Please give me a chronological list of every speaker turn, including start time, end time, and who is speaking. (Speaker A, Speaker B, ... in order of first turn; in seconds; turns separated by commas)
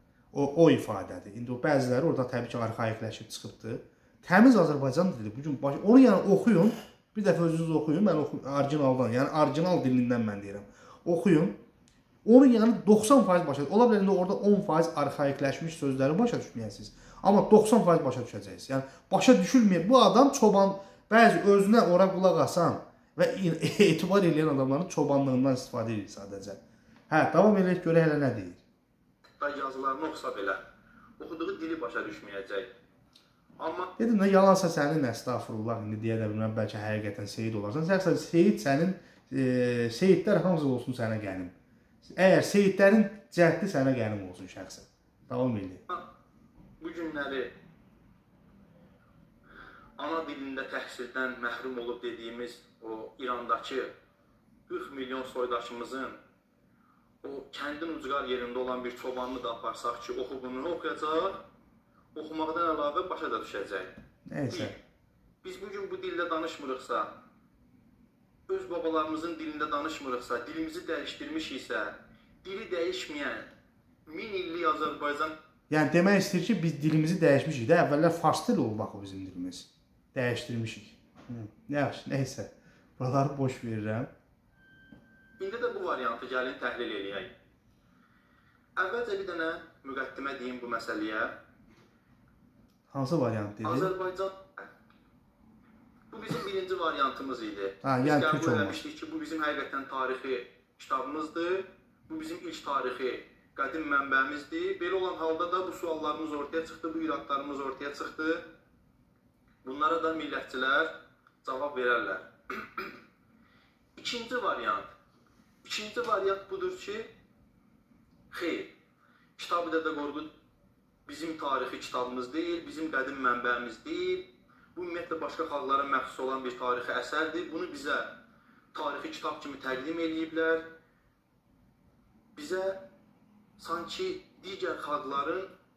Speaker A: 0.3-11.6, Speaker A: 12.2-26.6, Speaker A: 27.1-28.6, Speaker B: 29.4-30.6, Speaker B: 31.2-32.7, Speaker B: 33.6-33.9, Speaker A: 34.0-41.5, Speaker A: 42.0-45.8, Speaker B: 46.8-47.5, Speaker B: 50.0-53.9, Speaker B: 54.7-56.1, Speaker B: 57.2-61.4, Speaker B: 62.1-63.9, Speaker A: 64.3-64.8, Speaker B: 64.5-64.8, Speaker B: 65.4-67.1, Speaker B: 68.5-73.5, Speaker B: 74.0-75.3, Speaker A: 75.7-84.1, Speaker B: 85.4-87.3, Speaker B: 88.8-91.4, Speaker A: 92.9-93.9, Speaker B: 93.6-94.7, Speaker B: 96.1-108.4, Speaker A: 97.8-98.8, Speaker B: 109.6-113.0, Speaker B: 114.0-114.9, Speaker B: 115.6-117.1, Speaker B: 118.3-118.7, Speaker B: 119.4-120.3, Speaker B: 121.0-128.2, Speaker B: 128.7-130.7, Speaker B: 132.3-132.8, Speaker B: 133.6-135.5